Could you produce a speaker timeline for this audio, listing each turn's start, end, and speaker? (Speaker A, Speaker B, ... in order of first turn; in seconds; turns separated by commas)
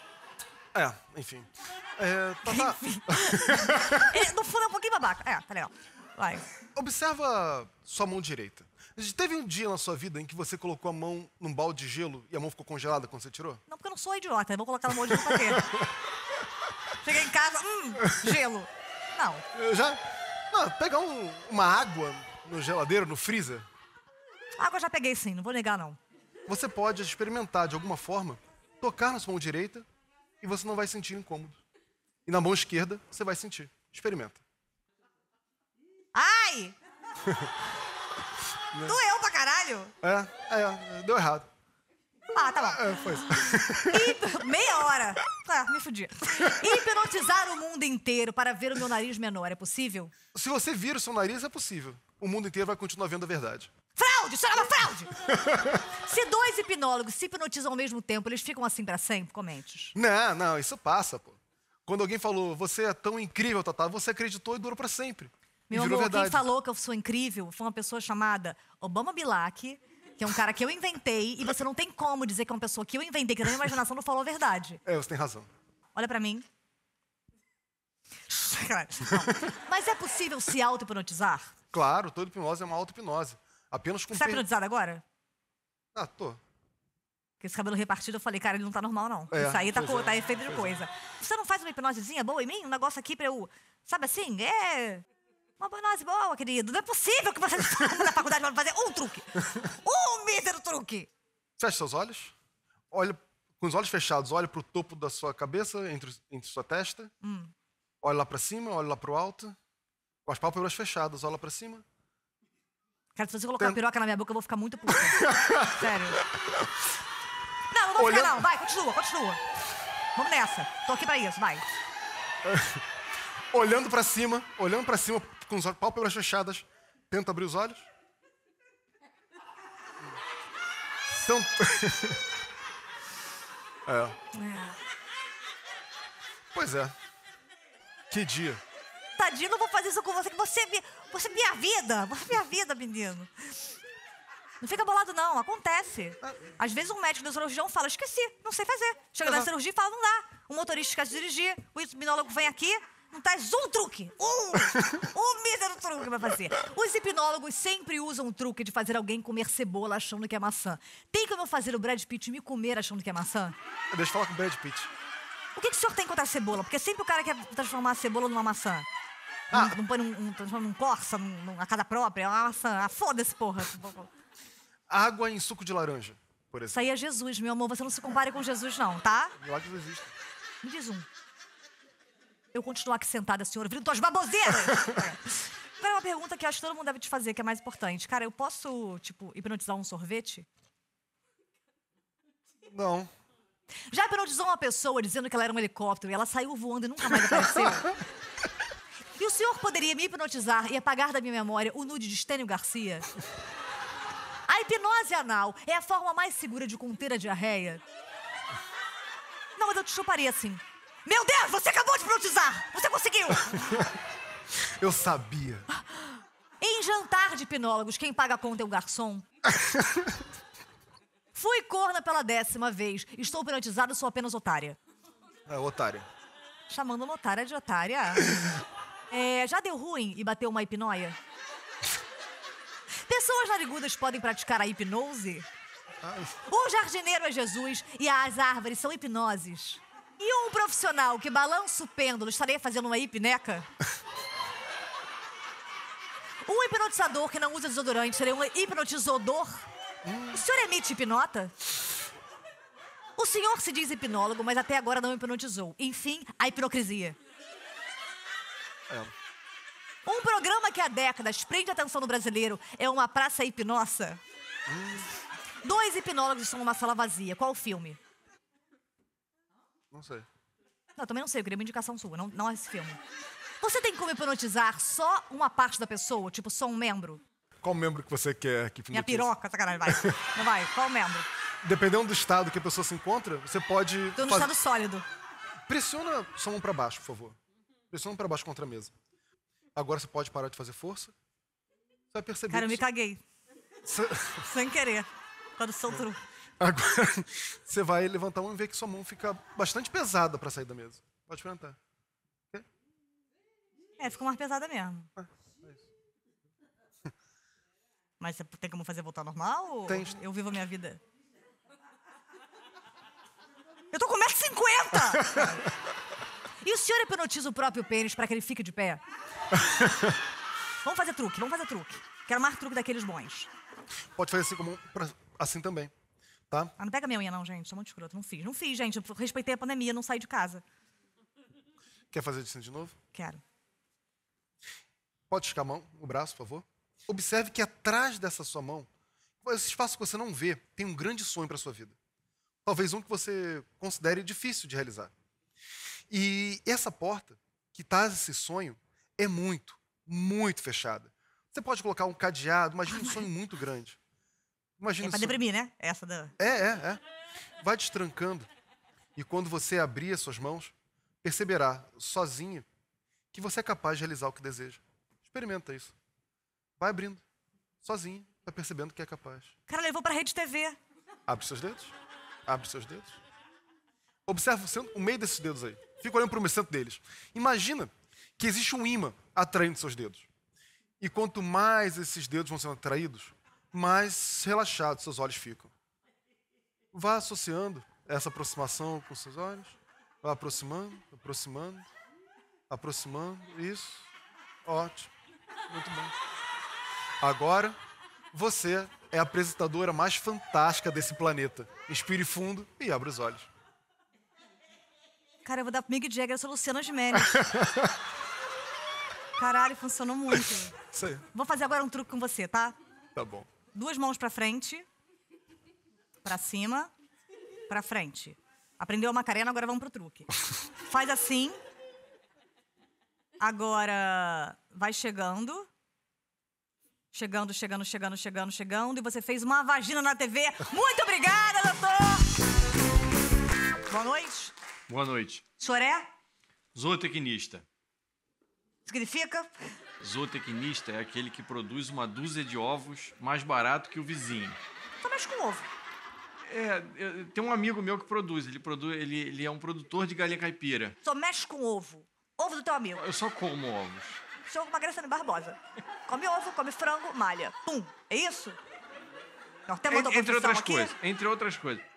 Speaker A: 0.7-4.2, Speaker B: 2.5-6.5, Speaker A: 6.7-13.6, Speaker B: 13.7-15.7, Speaker A: 15.1-15.9, Speaker B: 17.0-19.4, Speaker A: 19.5-23.7, Speaker B: 24.6-26.0, Speaker A: 26.5-29.9, Speaker A: 30.4-31.6, Speaker A: 32.2-34.4, Speaker B: 36.1-36.8, Speaker A: 38.7-39.0, Speaker B: 38.8-39.9, Speaker A: 40.0-41.5, Speaker B: 42.3-50.1, Speaker A: 42.6-44.2, Speaker A: 50.3-53.7, Speaker B: 54.0-55.1, Speaker A: 55.2-55.9, Speaker B: 56.0-59.9, Speaker A: 59.9-66.5, Speaker B: 65.7-74.8, Speaker A: 74.8-75.5, Speaker B: 75.9-76.5, Speaker B: 78.3-81.5, Speaker A: 81.7-84.4, Speaker B: 84.1-85.0, Speaker A: 85.9-86.4, Speaker B: 87.4-95.0, Speaker A: 89.3-90.8, Speaker B: 95.6-101.1, Speaker A: 101.6-102.3, Speaker A: 102.9-107.1, Speaker B: 107.2-107.5, Speaker A: 108.0-109.6, Speaker A: 110.2-111.8, Speaker B: 113.1-116.2, Speaker A: 115.1-116.7, Speaker B: 117.7-119.4, Speaker A: 118.0-118.5, Speaker B: 120.2-121.7, Speaker A: 122.4-122.8, Speaker A: 123.5-127.9, Speaker A: 131.1-132.2, Speaker A: 133.8-134.2, Speaker B: 134.3-134.8, Speaker A: 136.5-136.9, Speaker A: 138.1-138.6, Speaker B: 139.2-143.7, Speaker B: 144.6-163.5, Speaker A: 163.9-164.9, Speaker B: 165.6-168.9, Speaker A: 169.5-169.8, Speaker B: 169.5-174.1, Speaker A: 174.9-176.8, Speaker B: 176.7-179.3, Speaker A: 179.4-180.1, Speaker B: 180.6-181.1, Speaker B: 182.5-190.5, Speaker A: 184.7-185.0, Speaker A: 192.7-193.1, Speaker B: 193.9-198.0, Speaker B: 199.2-203.1, Speaker B: 204.5-207.8, Speaker B: 209.6-213.7, Speaker A: 213.6-213.9, Speaker A: 214.6-215.7, Speaker B: 215.7-219.2, Speaker A: 219.5-220.2, Speaker B: 221.3-224.8, Speaker A: 225.5-226.1, Speaker B: 226.7-228.3, Speaker B: 229.1-231.2, Speaker B: 233.1-235.5, Speaker A: 236.0-236.3, Speaker B: 236.5-243.7, Speaker B: 246.4-249.7, Speaker A: 250.0-250.4, Speaker B: 250.3-251.5, Speaker B: 253.2-257.2, Speaker A: 258.9-259.1, Speaker B: 260.0-264.2, Speaker A: 264.7-265.1, Speaker B: 265.6-268.0, Speaker A: 269.9-270.3, Speaker B: 270.9-273.0, Speaker B: 273.6-277.2, Speaker A: 277.6-279.3, Speaker B: 278.9-281.3, Speaker A: 279.9-280.2, Speaker A: 281.6-284.5, Speaker B: 284.1-285.0, Speaker A: 285.7-287.4, Speaker A: 287.9-288.9, Speaker A: 289.7-291.1, Speaker A: 292.1-292.8, Speaker B: 292.5-293.2, Speaker A: 293.8-294.5, Speaker B: 294.4-296.2, Speaker A: 296.6-301.8, Speaker B: 304.0-305.1, Speaker A: 305.2-305.8, Speaker B: 308.2-311.0, Speaker A: 309.9-310.2, Speaker B: 313.9-315.6, Speaker A: 315.2-315.6, Speaker B: 316.6-319.0, Speaker A: 319.5-320.2, Speaker B: 320.8-323.5, Speaker A: 324.1-325.9, Speaker B: 326.8-330.6, Speaker A: 332.1-332.9, Speaker B: 333.1-333.4, Speaker A: 335.3-338.9, Speaker A: 339.4-342.0, Speaker A: 342.6-345.1, Speaker A: 346.1-354.0, Speaker A: 354.8-355.4, Speaker B: 355.0-356.3, Speaker A: 356.4-357.0, Speaker A: 357.6-358.5, Speaker A: 359.1-362.6, Speaker A: 363.3-365.9, Speaker A: 366.8-367.2, Speaker A: 367.8-369.5, Speaker B: 369.7-370.8, Speaker A: 371.3-371.9, Speaker A: 372.4-373.2, Speaker A: 374.2-380.3, Speaker A: 381.0-385.7, Speaker A: 386.9-391.9, Speaker A: 392.7-394.1, Speaker A: 394.6-395.1, Speaker A: 395.7-396.1, Speaker A: 397.2-397.8, Speaker A: 398.3-403.5, Speaker B: 405.4-407.4, Speaker A: 407.3-408.0, Speaker B: 409.4-410.7, Speaker A: 410.7-411.2, Speaker B: 411.3-412.8, Speaker A: 413.1-413.5, Speaker B: 413.7-414.9, Speaker B: 416.2-416.9, Speaker B: 417.7-421.6, Speaker B: 423.4-425.7, Speaker B: 427.1-432.3, Speaker B: 433.9-434.5, Speaker C: 434.9-435.4, Speaker B: 435.6-436.1, Speaker C: 436.7-437.6, Speaker B: 438.9-439.7, Speaker C: 440.0-444.6, Speaker B: 445.0-445.7, Speaker C: 446.5-450.9, Speaker B: 451.0-453.0, Speaker C: 453.0-454.2, Speaker B: 454.4-458.6, Speaker B: 459.7-460.9, Speaker C: 459.9-461.8